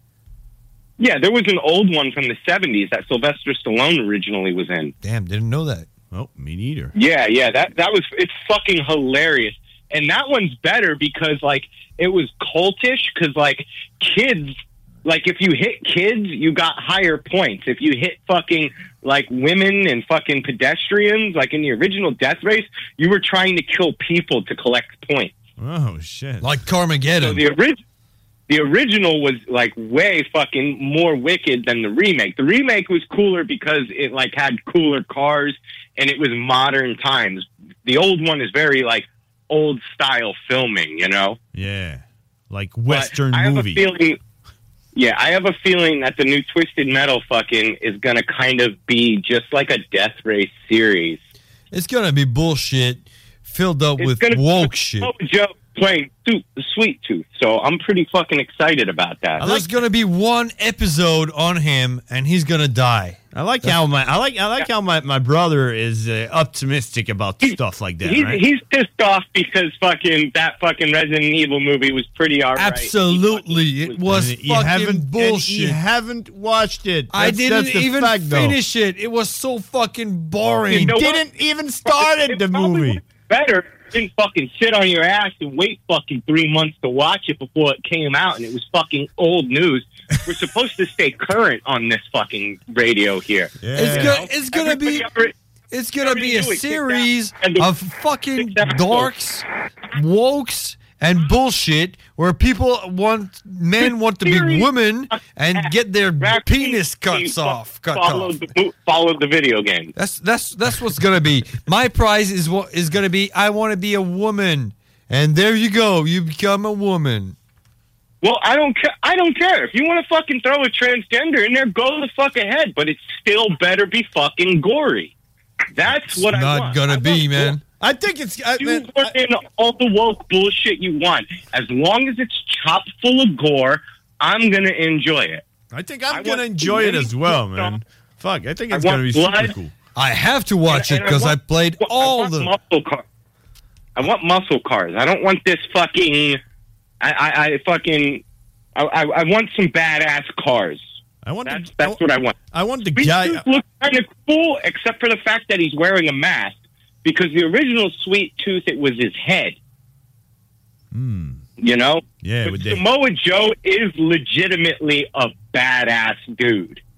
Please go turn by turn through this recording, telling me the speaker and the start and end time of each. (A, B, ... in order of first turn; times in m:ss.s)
0:01.0-0:04.9 A
0:05.0-0:05.9 B
0:06.1-0:06.9 C
0:07.0-0:25.4 A
0:25.6-0:26.6 C
0:26.4-0:27.4 B
0:27.2-0:27.8 A
0:28.5-0:41.4 A
0:41.5-0:43.8 C
0:42.9-0:44.2 A
0:45.0-0:51.2 A
0:51.7-0:55.1 B
0:54.0-0:59.4 A
0:59.4-0:59.7 C
0:59.4-1:03.8 B
1:03.3-1:08.4 C
1:07.4-1:14.1 A
1:12.6-1:15.8 B
1:14.1-1:18.6 C
1:17.1-1:21.0 B
1:20.7-1:21.2 A
1:20.8-1:23.0 C
1:21.9-1:35.3 A
1:33.6-1:34.2 C
1:33.8-1:35.1 B
1:35.7-1:48.4 B
1:36.0-1:37.7 A
1:38.4-1:39.1 A
1:43.8-1:49.9 A
1:50.0-1:57.4 B
1:58.2-2:05.1 A
2:05.8-2:07.6 A
2:06.2-2:07.6 B
2:07.8-2:09.2 C
2:08.6-2:15.4 A
2:15.7-2:19.7 C
2:16.1-2:17.7 A
2:18.7-2:19.5 A
2:20.0-2:22.6 B
2:20.7-2:23.0 A
2:24.0-2:26.4 A
2:27.0-2:28.2 A
2:28.8-2:30.9 A
2:31.2-2:33.4 C
2:31.5-2:32.4 A
2:33.0-2:39.6 A
2:40.9-2:41.4 C
2:41.6-2:46.8 A
2:42.2-2:42.8 C